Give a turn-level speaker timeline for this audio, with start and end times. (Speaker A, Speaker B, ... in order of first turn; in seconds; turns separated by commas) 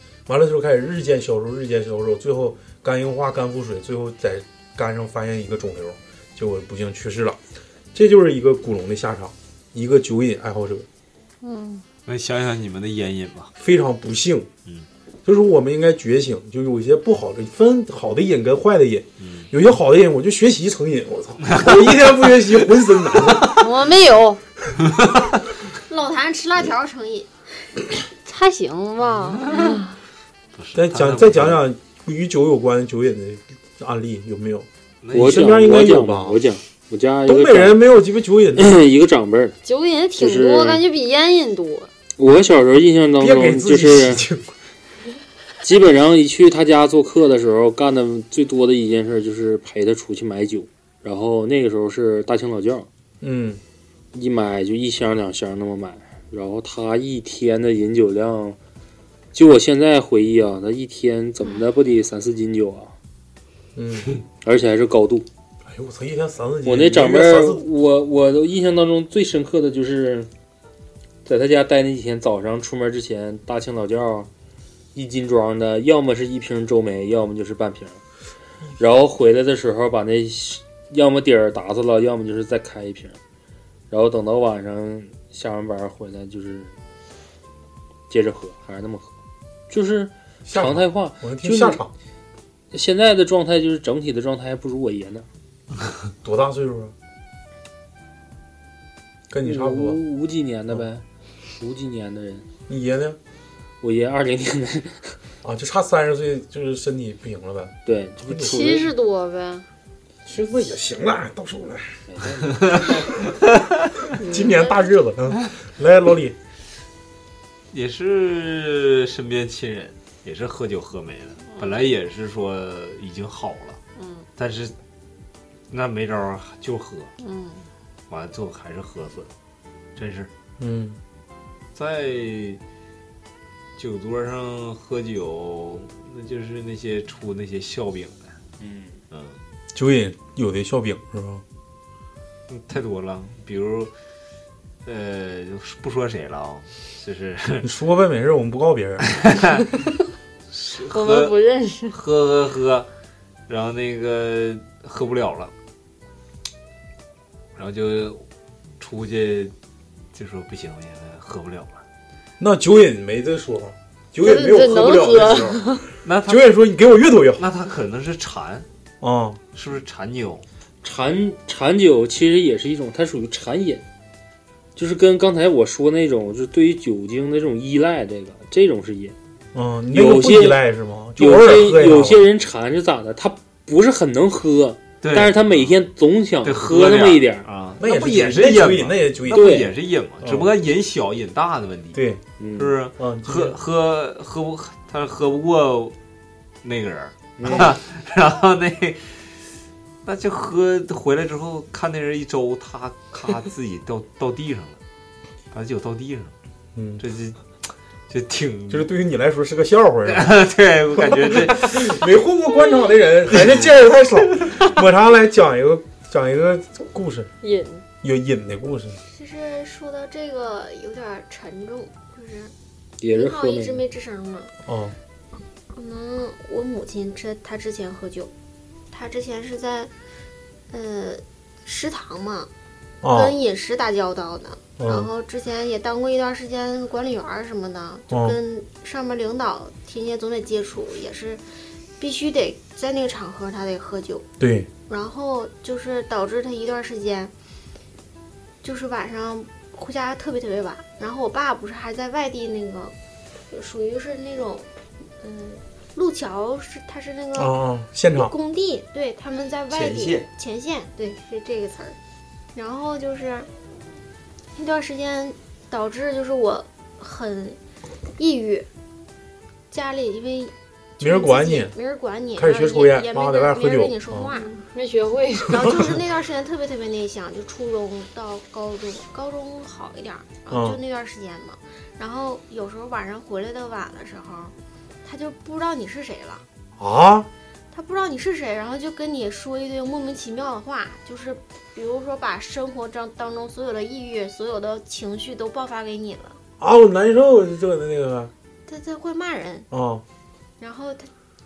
Speaker A: 0.3-7.4, Speaker A: 7.9-10.9, Speaker B: 11.4-11.8, Speaker C: 12.1-13.5, Speaker A: 13.6-14.5, Speaker A: 15.2-23.7, Speaker C: 19.2-19.5, Speaker C: 21.4-22.3, Speaker B: 23.5-24.4, Speaker D: 25.9-27.3, Speaker B: 28.2-30.0, Speaker C: 29.4-29.7, Speaker C: 30.6-31.6, Speaker A: 30.8-36.4, Speaker C: 35.0-35.9, Speaker E: 35.1-37.8, Speaker A: 37.3-38.8, Speaker E: 38.6-39.6, Speaker B: 39.6-41.9, Speaker E: 40.2-40.8, Speaker E: 42.2-44.3, Speaker A: 43.2-44.5, Speaker E: 45.6-52.9, Speaker A: 53.2-53.6, Speaker E: 54.1-58.6, Speaker E: 59.3-62.9, Speaker A: 63.8-64.1, Speaker E: 64.4-65.3, Speaker A: 65.7-67.6, Speaker E: 66.7-70.3, Speaker E: 71.2-74.3, Speaker E: 75.0-78.0, Speaker E: 78.8-83.2, Speaker E: 83.9-86.7, Speaker E: 88.1-89.1, Speaker E: 89.7-91.8, Speaker A: 90.5-91.9, Speaker E: 92.7-95.3, Speaker A: 96.2-96.9, Speaker A: 99.3-100.0, Speaker E: 99.4-101.0, Speaker E: 101.6-102.5, Speaker A: 102.7-103.2, Speaker E: 103.8-105.1, Speaker A: 105.4-108.7, Speaker E: 107.9-108.9, Speaker B: 108.4-109.7, Speaker A: 110.3-111.9, Speaker E: 112.1-113.0, Speaker C: 112.7-113.9, Speaker A: 114.2-116.4, Speaker B: 114.2-114.8, Speaker C: 117.7-123.8, Speaker B: 124.0-124.2, Speaker C: 124.4-124.7, Speaker C: 125.7-127.1, Speaker B: 127.2-127.7, Speaker C: 128.1-129.3, Speaker C: 130.0-130.3, Speaker A: 130.6-131.0, Speaker C: 131.8-132.6, Speaker C: 133.8-138.3, Speaker E: 138.6-139.0, Speaker C: 139.1-139.4, Speaker A: 139.7-141.4, Speaker C: 142.5-143.9, Speaker C: 144.8-147.7, Speaker A: 147.6-149.2, Speaker C: 149.1-149.7, Speaker C: 150.5-151.4, Speaker B: 150.9-152.0, Speaker C: 151.9-152.9, Speaker C: 153.5-155.5, Speaker C: 157.6-158.2, Speaker C: 158.8-159.5, Speaker C: 160.1-161.8, Speaker A: 162.4-165.7, Speaker B: 164.2-165.9, Speaker C: 166.0-166.6, Speaker A: 166.3-167.5, Speaker C: 167.4-168.7, Speaker A: 169.0-169.4, Speaker C: 169.5-170.4, Speaker E: 170.8-173.8, Speaker E: 174.8-179.2, Speaker A: 179.5-182.2, Speaker E: 179.9-180.6, Speaker E: 181.2-187.4, Speaker C: 185.0-185.7, Speaker C: 186.4-192.0, Speaker A: 187.8-189.6, Speaker E: 189.3-189.7, Speaker A: 190.2-190.5, Speaker A: 191.9-192.2, Speaker E: 192.4-192.7, Speaker C: 192.6-195.9, Speaker A: 193.0-193.6, Speaker C: 196.6-199.2, Speaker E: 197.4-197.7, Speaker A: 197.4-197.7, Speaker C: 200.0-204.8, Speaker C: 205.5-206.3, Speaker A: 206.8-207.0, Speaker C: 207.0-207.4, Speaker C: 208.1-208.9, Speaker A: 208.7-210.3, Speaker C: 210.1-212.0, Speaker A: 210.9-217.3, Speaker C: 213.3-213.7, Speaker B: 217.4-217.8, Speaker A: 218.0-219.0, Speaker D: 219.1-222.5, Speaker E: 223.0-223.8, Speaker D: 223.1-224.5, Speaker A: 224.7-225.0, Speaker D: 225.7-228.3, Speaker D: 228.9-229.9, Speaker D: 230.7-232.5, Speaker A: 233.0-233.4, Speaker D: 233.0-241.4, Speaker A: 234.8-235.1, Speaker A: 238.1-238.4, Speaker D: 242.0-244.3, Speaker A: 244.4-244.7, Speaker D: 244.9-247.3, Speaker D: 248.6-252.9, Speaker D: 253.5-254.7, Speaker D: 255.2-257.6, Speaker A: 257.4-258.3, Speaker D: 258.1-262.0, Speaker C: 259.7-260.3, Speaker D: 262.6-263.5, Speaker D: 264.6-267.6, Speaker D: 268.2-268.7, Speaker D: 269.7-274.5, Speaker A: 271.0-271.7, Speaker A: 272.4-274.3, Speaker B: 274.3-275.8, Speaker D: 275.5-286.4, Speaker A: 280.5-280.8, Speaker A: 286.8-287.3, Speaker D: 287.7-296.4, Speaker A: 296.6-298.3, Speaker D: 298.7-299.7, Speaker A: 299.7-300.0, Speaker D: 300.6-301.1